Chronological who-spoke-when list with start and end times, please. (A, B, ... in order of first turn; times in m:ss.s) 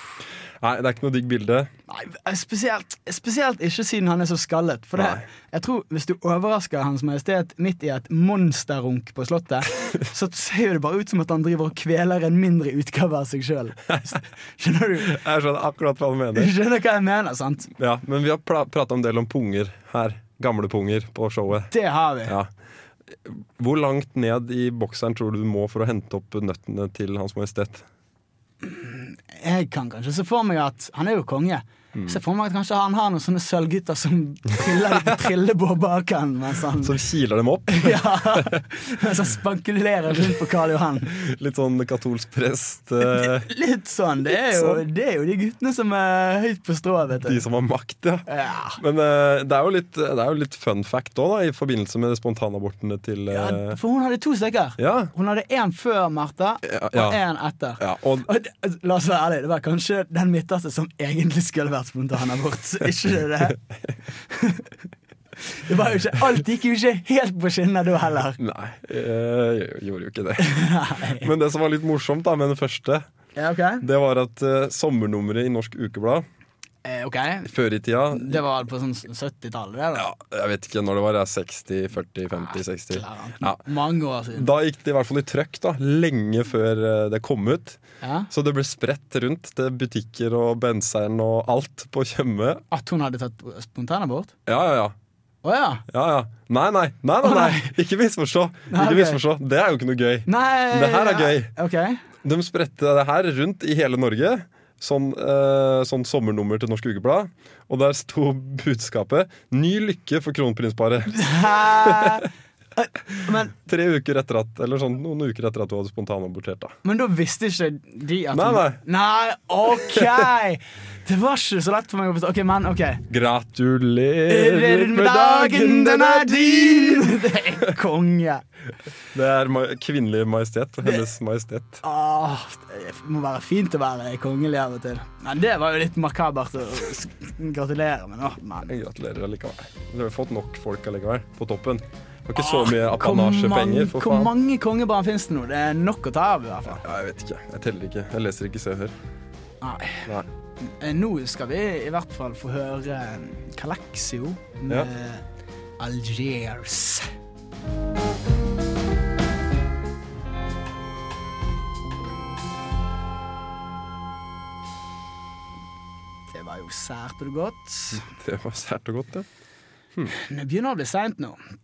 0:00.6-0:01.7 A
0:01.9-0:15.2 B
0:05.0-0:05.2 A
0:15.0-0:16.6 A
0:16.4-0:17.7 B
0:17.8-0:21.7 A
0:21.7-0:22.4 B
0:22.3-0:22.5 A
0:23.1-0:27.9 A
0:28.6-0:37.0 B
0:34.7-0:35.0 A
0:36.8-0:38.6 A
0:37.7-0:41.1 B
0:41.1-0:43.5 A
0:43.0-0:47.4 B
0:44.3-0:44.8 A
0:47.2-0:53.8 A
0:48.3-0:48.8 B
0:53.3-1:03.6 B
0:54.8-0:55.1 A
0:56.6-0:57.2 A
0:57.8-0:58.3 A
1:04.2-1:04.7 B
1:05.4-1:08.4 B
1:08.4-1:10.6 A
1:10.4-1:11.3 B
1:11.1-1:13.0 A
1:13.4-1:13.8 B
1:13.8-1:16.2 A
1:16.8-1:17.5 B
1:17.5-1:18.4 A
1:18.1-1:20.1 B
1:20.0-1:23.6 A
1:22.4-1:24.5 B
1:24.3-1:32.6 A
1:28.0-1:28.3 B
1:32.7-1:34.3 B
1:34.5-1:35.0 A
1:35.4-1:35.8 B
1:35.9-1:41.5 A
1:37.2-1:37.7 B
1:38.7-1:39.2 B
1:40.3-1:42.0 B
1:42.2-1:52.3 A
1:51.1-1:53.5 B
1:53.6-1:56.8 A
1:56.8-2:03.0 B
1:58.3-1:58.8 A
1:59.7-2:00.3 A
2:03.1-2:07.7 A
2:04.3-2:08.4 B
2:09.1-2:11.8 A
2:11.8-2:18.7 B
2:18.7-2:24.3 A
2:22.4-2:26.8 B
2:26.8-2:29.0 A
2:29.6-2:35.3 B
2:35.8-2:37.1 B
2:46.3-2:48.1 B
2:47.9-2:49.3 A
2:50.1-2:51.4 B